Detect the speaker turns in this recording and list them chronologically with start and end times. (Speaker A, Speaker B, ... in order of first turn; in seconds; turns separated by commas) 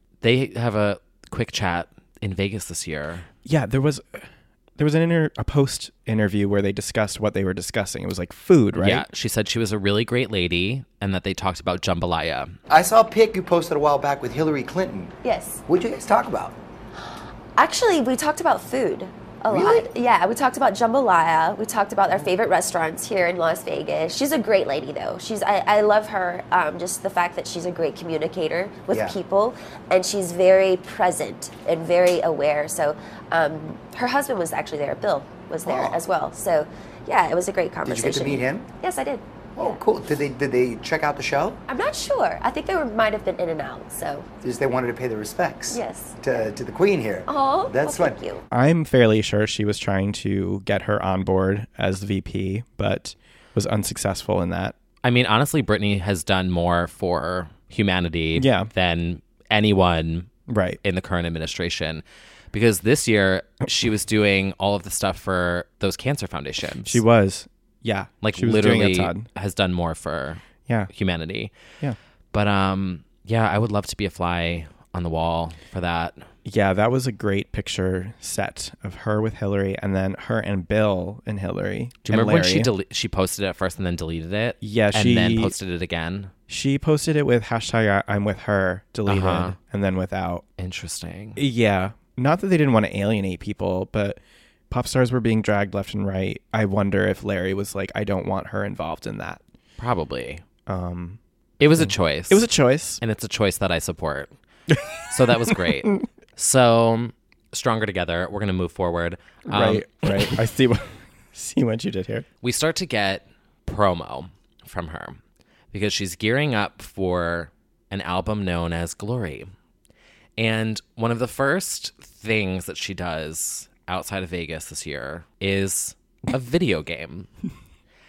Speaker A: 0.2-3.3, Speaker B: 3.5-9.1, Speaker A: 8.8-12.6, Speaker C: 12.7-15.1, Speaker D: 15.2-15.6, Speaker C: 15.7-16.6, Speaker D: 17.6-39.8, Speaker C: 19.5-19.9, Speaker C: 28.9-29.2, Speaker C: 35.6-36.0, Speaker C: 37.8-38.7, Speaker C: 39.5-41.6, Speaker D: 41.7-44.3, Speaker C: 44.4-48.2, Speaker D: 45.7-46.5, Speaker D: 47.3-48.4, Speaker B: 48.5-54.7, Speaker A: 55.0-60.3, Speaker B: 58.4-58.7, Speaker B: 60.5-60.8, Speaker A: 60.8-67.0, Speaker B: 66.8-69.3, Speaker A: 68.2-71.5, Speaker B: 70.7-70.9, Speaker A: 72.3-76.3, Speaker B: 76.5-82.7, Speaker A: 82.0-86.3, Speaker B: 84.6-85.5, Speaker B: 86.5-90.5, Speaker A: 89.1-89.6, Speaker A: 90.6-91.4, Speaker B: 91.4-99.4, Speaker A: 99.8-100.4, Speaker B: 100.7-101.2, Speaker A: 101.6-102.4, Speaker B: 101.8-103.0, Speaker A: 103.0-104.3, Speaker A: 105.1-110.4, Speaker B: 109.5-112.3, Speaker A: 112.4-115.2, Speaker A: 115.7-119.5, Speaker A: 120.4-127.3